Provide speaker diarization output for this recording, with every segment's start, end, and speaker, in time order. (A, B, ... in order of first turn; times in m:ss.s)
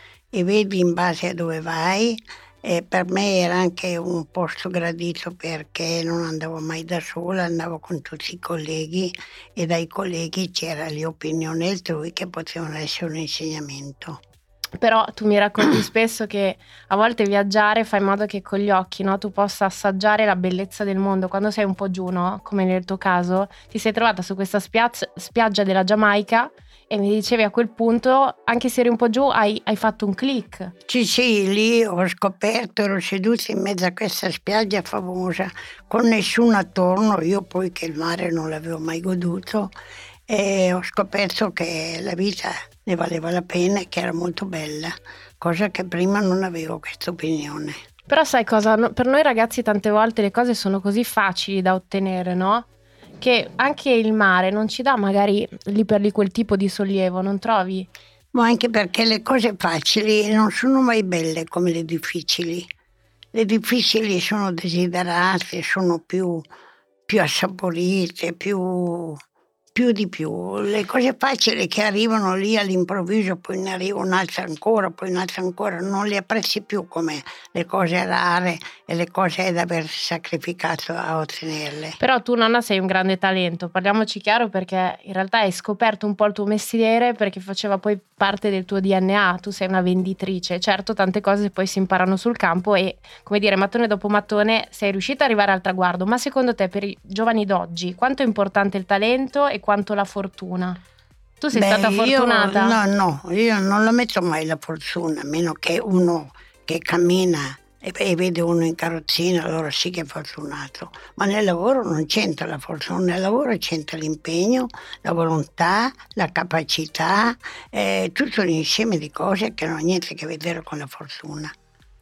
0:00.3-0:14.2 A
0:14.8-0:30.7 B
0:30.9-0:39.7 A
0:40.3-0:47.8 A
0:48.1-0:52.7 B
0:53.2-0:57.9 B
0:58.3-1:02.7 A
1:03.3-1:06.5 A
1:07.1-1:09.2 A
1:09.7-1:22.0 A
1:22.0-1:40.8 B
1:41.4-1:42.8 B
1:41.5-2:01.5 A